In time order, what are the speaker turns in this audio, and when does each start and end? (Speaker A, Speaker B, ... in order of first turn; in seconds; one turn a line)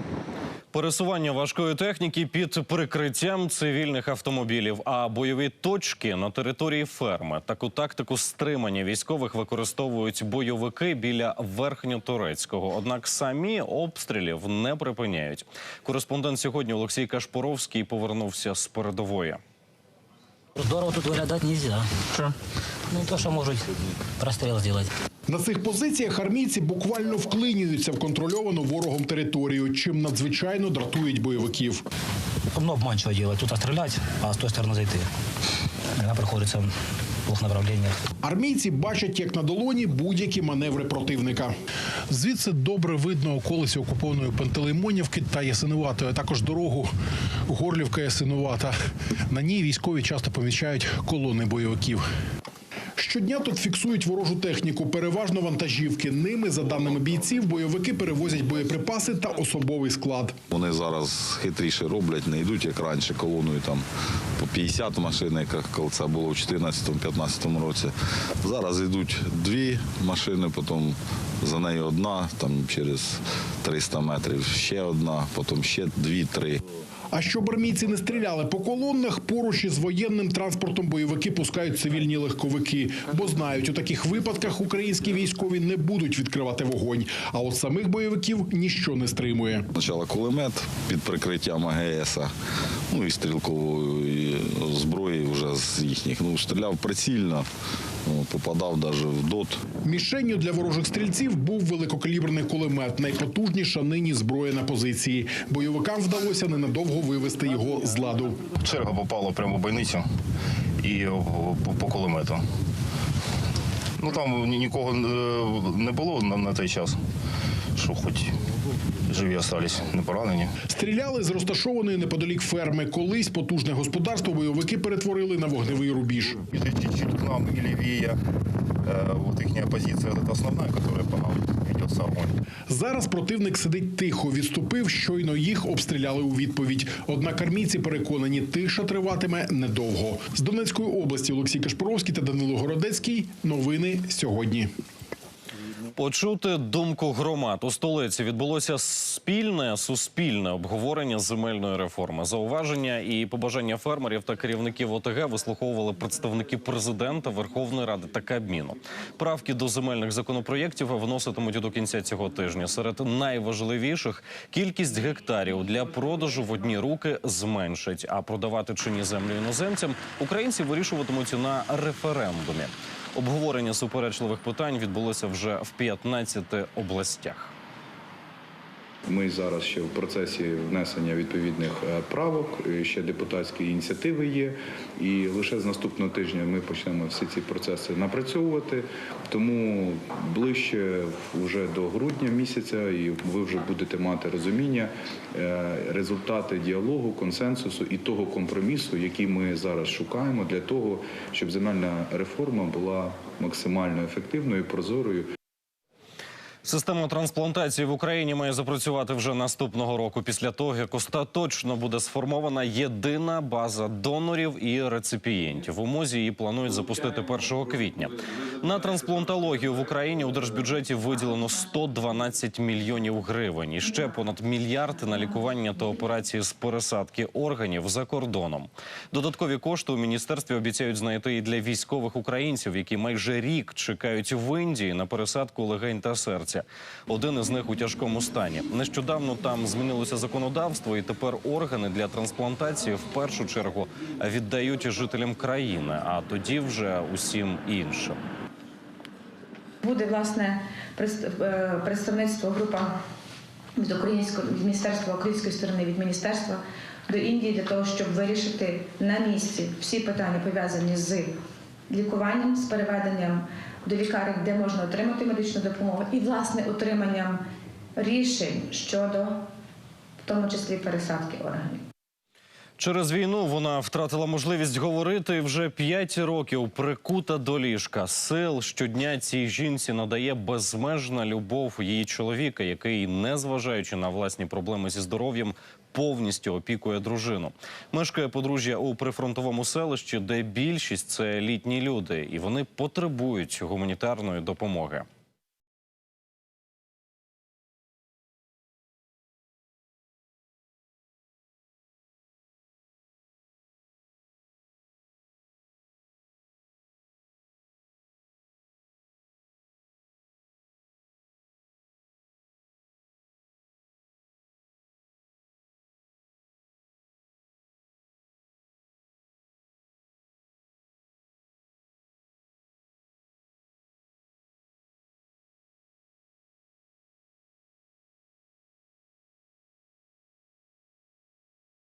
Speaker A: 0.7-19.4
Speaker B: 20.6-22.3
Speaker B: 22.9-23.7
Speaker B: 24.2-24.9
Speaker C: 25.3-31.9
Speaker B: 32.5-35.1
Speaker B: 36.0-36.7
Speaker B: 37.3-38.0
Speaker C: 38.2-41.5
Speaker C: 42.1-46.9
Speaker C: 47.5-48.8
Speaker C: 49.3-52.0
Speaker C: 53.0-60.4
Speaker D: 60.5-63.9
Speaker D: 64.4-76.6
Speaker C: 77.1-89.7
Speaker D: 89.8-92.3
Speaker D: 92.9-97.5
Speaker D: 98.0-99.6
Speaker C: 99.8-108.4
Speaker E: 108.6-110.1
Speaker E: 110.8-112.4
Speaker E: 114.0-117.0
Speaker E: 117.8-118.3
Speaker E: 119.1-120.5
Speaker C: 120.7-126.4
Speaker E: 126.5-128.2
Speaker E: 128.8-132.4
Speaker C: 132.7-144.7
Speaker A: 146.0-177.5
Speaker F: 179.1-205.3
Speaker A: 206.7-248.2
Speaker G: 249.8-252.9
Speaker G: 253.8-261.4
Speaker G: 261.9-267.4
Speaker G: 268.0-269.5
Speaker G: 270.2-271.8
Speaker A: 272.8-295.1